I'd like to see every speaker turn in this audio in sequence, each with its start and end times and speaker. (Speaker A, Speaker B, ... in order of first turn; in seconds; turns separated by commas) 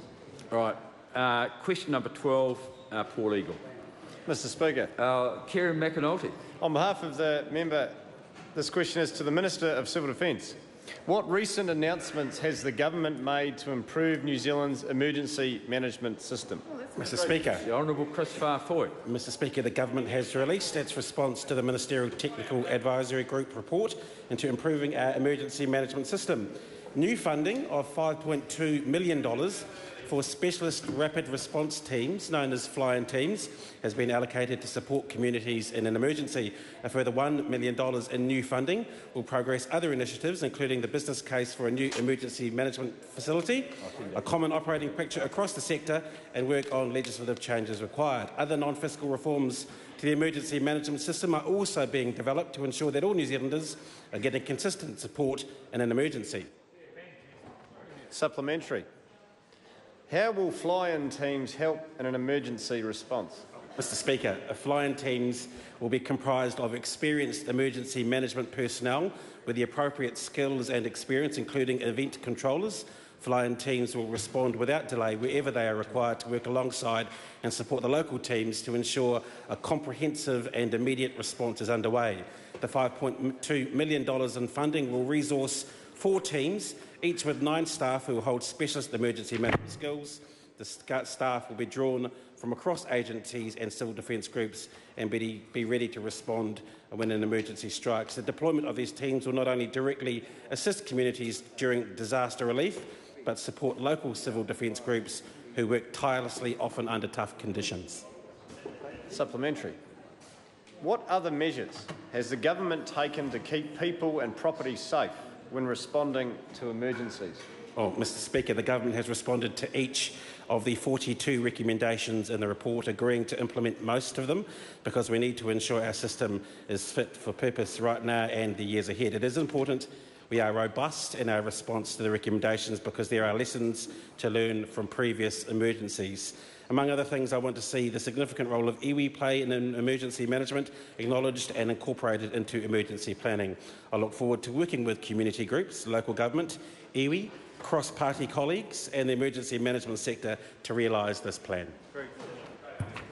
Speaker A: 0.5-3.6, Speaker B: 4.2-4.9, Speaker A: 5.0-6.3, Speaker B: 6.6-8.0, Speaker B: 8.5-16.6, Speaker C: 16.9-17.6, Speaker A: 17.6-19.0, Speaker C: 19.0-56.5, Speaker B: 58.1-58.9, Speaker B: 60.1-63.4, Speaker C: 63.8-108.0, Speaker B: 109.1-109.8, Speaker B: 110.8-117.4, Speaker C: 117.7-151.8